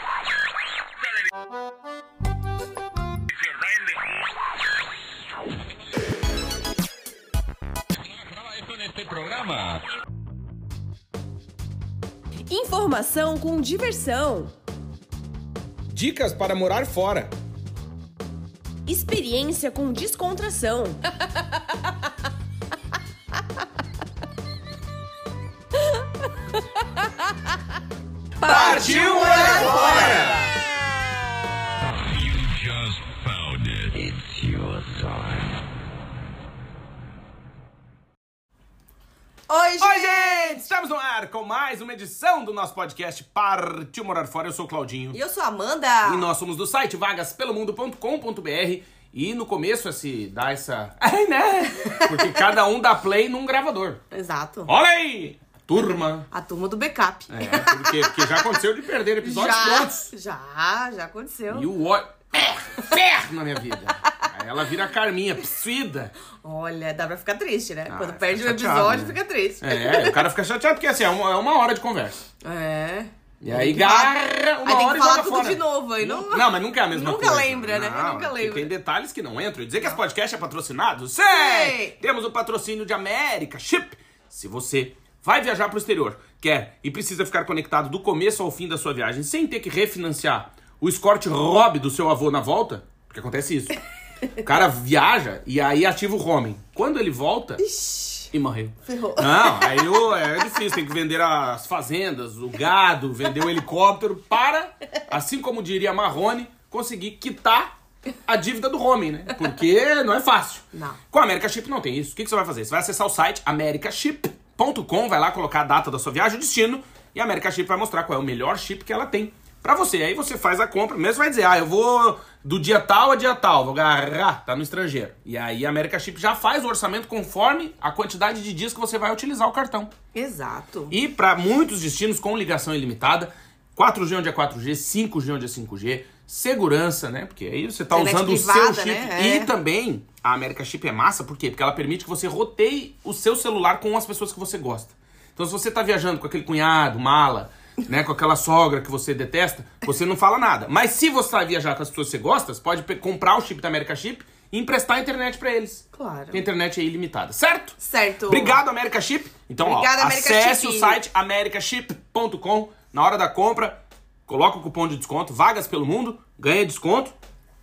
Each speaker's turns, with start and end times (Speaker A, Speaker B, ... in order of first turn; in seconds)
Speaker A: 8.0-9.8, 31.8-35.5
Speaker B: 12.5-14.5, 18.9-21.1, 28.4-30.5, 39.5-40.7, 45.1-46.3, 51.8-52.4, 54.1-54.7, 56.3-58.5, 59.2-61.7, 66.4-70.2, 72.4-78.7, 81.3-82.0, 97.6-98.3, 98.8-100.1, 110.7-111.0, 130.1-130.9, 137.9-139.5, 155.9-156.4, 157.8-158.6, 159.6-161.0
Speaker C: 15.9-17.3, 28.4-30.5, 39.8-45.2, 46.0-54.0, 54.7-56.3, 57.3-60.1, 61.5-66.1, 67.9-72.2, 73.4-93.8, 94.4-97.6, 98.3-107.7, 108.3-129.9, 130.9-167.2